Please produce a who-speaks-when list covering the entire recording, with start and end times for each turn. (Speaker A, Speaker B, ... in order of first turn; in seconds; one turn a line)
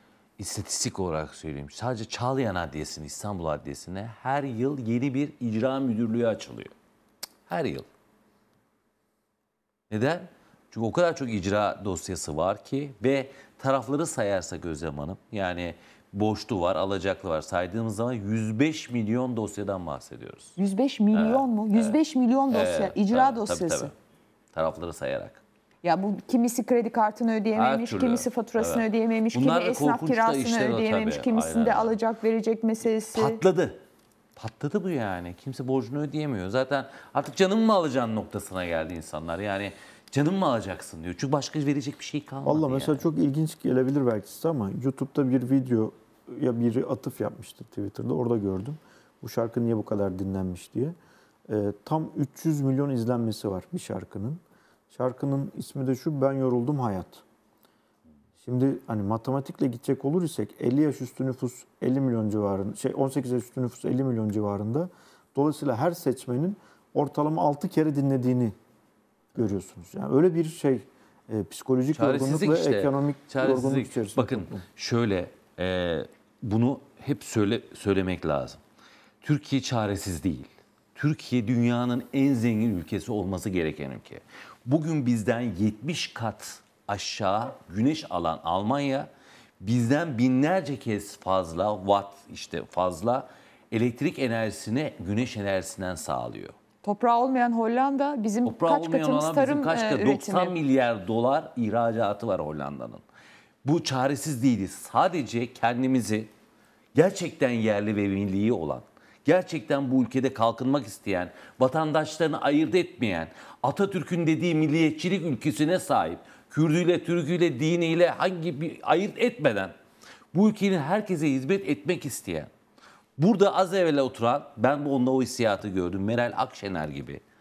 Speaker A: 0.4-6.7
Speaker A: 7.5-7.8
Speaker A: 9.9-20.6
Speaker B: 20.6-23.9
Speaker A: 21.1-22.0
Speaker A: 22.5-23.9
Speaker A: 24.5-25.4
Speaker B: 25.8-33.4
Speaker A: 27.5-31.9
Speaker A: 33.1-33.8
Speaker A: 34.4-43.0
Speaker C: 42.4-51.0
Speaker C: 51.5-57.2
Speaker C: 58.4-68.5
Speaker C: 69.3-74.6
Speaker A: 71.9-78.6
Speaker A: 79.2-89.1
Speaker A: 89.6-96.5
Speaker B: 96.8-100.6
Speaker A: 98.4-103.0
Speaker A: 103.6-106.3
Speaker A: 106.9-119.7
Speaker A: 120.3-122.5
Speaker A: 123.2-127.2